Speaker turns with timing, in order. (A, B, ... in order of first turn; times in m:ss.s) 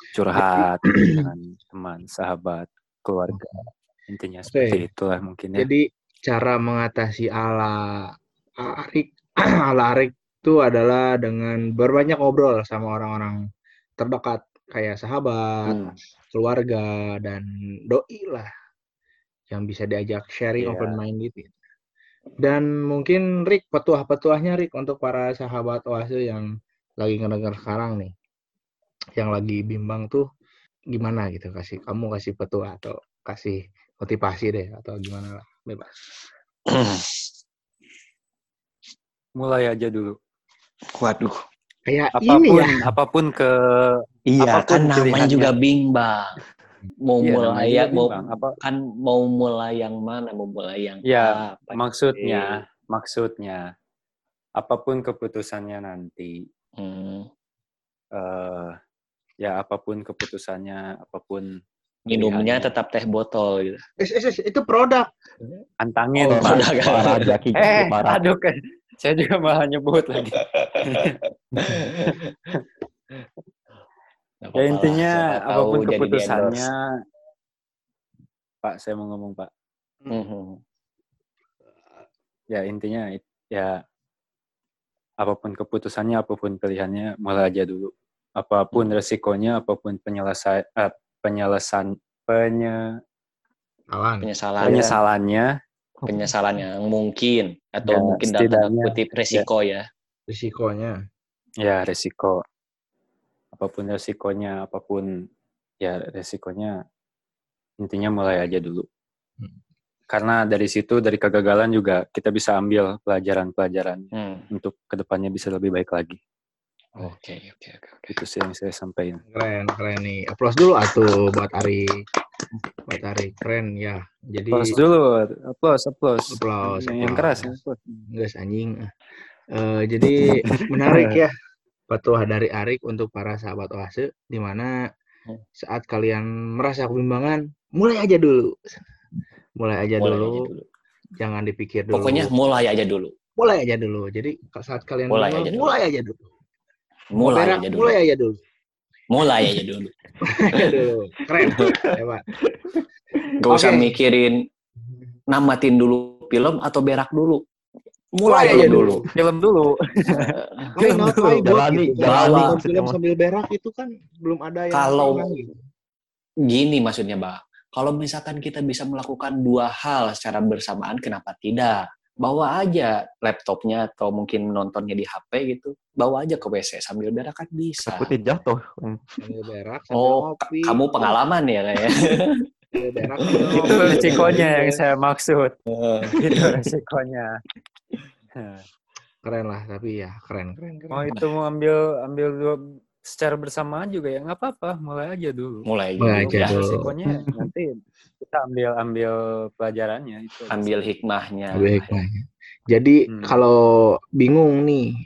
0:00.2-0:03.6 A
0:00.4-0:01.2 B
0:03.3-0:03.6 B
0:04.1-0:05.7 A
0:04.5-0:04.8 B
0:05.6-0:08.1 B
0:08.6-0:13.4 B
0:14.0-0:15.8 B
0:16.3-0:18.5 B
0:19.5-0:21.5 B
0:20.6-0:21.0 A
0:22.4-0:26.5 B
0:27.0-0:28.1 B
0:29.2-0:30.3 B
0:30.9-0:35.9 B
0:36.7-0:37.3 C
0:39.4-0:40.2 A
0:41.0-0:41.4 C
0:41.9-0:42.9 B
0:42.2-0:45.5 A
0:44.3-0:46.4 C
0:47.0-0:52.6 C
0:47.2-0:48.6 A
0:51.1-0:53.7 A
0:54.6-0:56.4 A
0:56.8-0:57.3 C
0:58.1-0:58.8 A
0:59.4-1:02.7 A
1:02.1-1:03.8 C
1:04.0-1:05.1 B
1:05.8-1:06.7 A
1:06.2-1:08.2 D
1:06.4-1:07.3 C
1:07.6-1:11.1 A
1:10.4-1:12.5 C
1:14.4-1:16.7 C
1:14.6-1:16.8 A
1:18.6-1:19.5 A
1:20.1-1:20.6 C
1:22.5-1:23.8 A
1:25.2-1:32.8 A
1:33.9-1:34.3 B
1:34.2-1:35.0 C
1:34.6-1:35.5 A
1:36.0-1:39.9 C
1:36.0-1:36.3 D
1:37.8-1:39.5 A
1:40.3-1:41.0 B
1:41.6-1:42.4 A
1:43.5-1:45.1 A
1:45.8-1:46.8 A
1:47.8-1:48.9 A
1:50.1-1:56.2 A
1:54.2-1:54.5 C
1:57.0-1:58.2 C
1:58.1-1:59.2 A
1:59.3-2:02.0 B
2:02.9-2:04.8 B
2:04.5-2:08.0 A
2:06.3-2:07.6 B
2:08.1-2:08.9 B
2:09.5-2:11.3 B
2:11.9-2:14.7 B
2:15.6-2:18.8 B
2:19.6-2:20.5 B
2:20.0-2:20.7 C
2:21.2-2:22.3 B
2:21.9-2:23.1 C
2:23.4-2:26.3 B
2:25.1-2:25.8 C
2:27.1-2:28.0 C
2:27.2-2:28.4 B
2:29.1-2:29.9 C
2:30.2-2:32.2 B
2:31.4-2:31.9 C
2:33.4-2:34.4 C
2:33.5-2:34.0 B
2:35.3-2:37.4 C
2:38.1-2:39.1 C
2:38.2-2:39.1 B
2:38.5-2:41.3 A
2:40.1-2:40.8 C
2:40.8-2:45.6 B
2:41.4-2:43.0 D
2:42.0-2:42.6 C
2:44.7-2:45.3 C
2:46.5-2:58.1 C
2:57.9-2:59.1 D
2:59.2-3:01.2 B
2:59.9-3:02.5 C
3:02.7-3:04.8 B
3:03.5-3:04.3 C
3:03.7-3:05.6 A
3:05.7-3:06.7 C
3:06.2-3:07.4 A
3:08.4-3:08.6 A
3:09.2-3:11.1 B
3:10.9-3:20.7 A
3:15.7-3:16.6 C
3:16.0-3:17.4 B
3:20.5-3:22.0 C
3:21.5-3:24.9 B
3:23.1-3:23.4 A